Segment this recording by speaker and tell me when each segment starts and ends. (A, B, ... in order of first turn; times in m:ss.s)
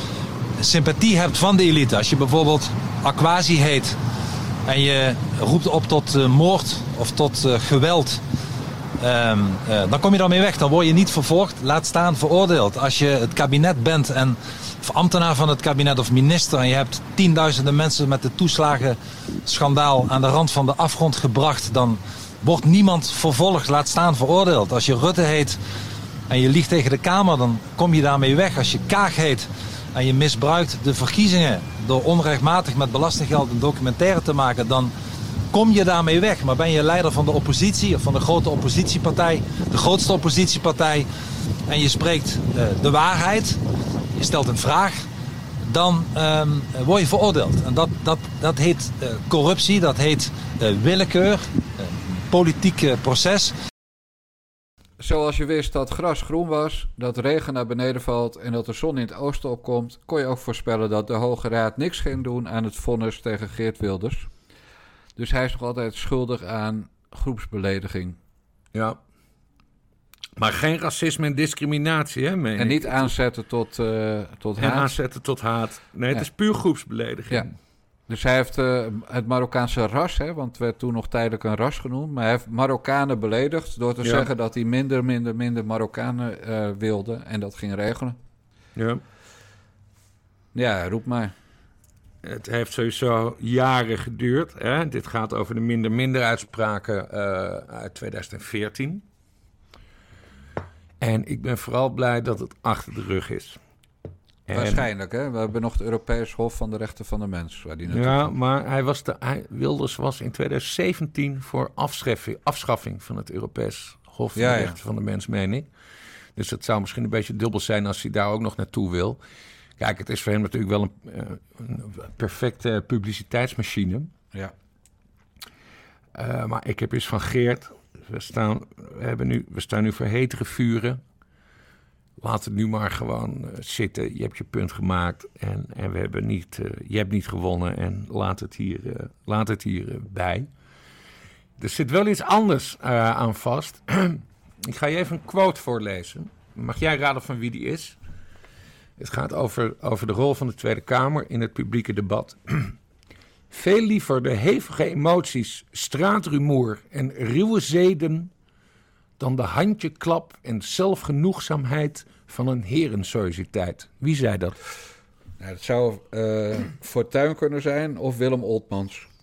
0:00.6-0:04.0 A
0:04.7-0:08.2 A
0:09.0-0:25.6 A
0:26.3-0:34.9 A
0:35.5-0:41.1 A
0:41.7-0:43.6 A
0:44.2-0:45.1 A
0:45.6-0:53.6 A
0:55.0-1:04.3 B
1:05.2-1:08.2 B
1:10.4-1:13.1 C
1:12.6-1:14.9 B
1:14.6-1:17.5 C
1:18.1-1:28.2 B
1:24.0-1:24.3 C
1:28.8-1:29.0 C
1:30.5-1:31.3 B
1:32.2-1:39.0 C
1:41.0-1:43.6 C
1:44.5-1:44.9 C
1:44.5-1:48.3 B
1:47.9-1:55.7 C
1:54.4-1:54.8 B
1:56.4-1:59.2 C
1:59.8-2:04.1 C
2:06.2-2:11.0 C
2:12.2-2:20.5 C
2:21.6-2:28.0 C
2:29.0-2:32.8 C
2:33.5-2:38.3 C
2:39.2-2:44.6 C
2:45.4-2:49.1 B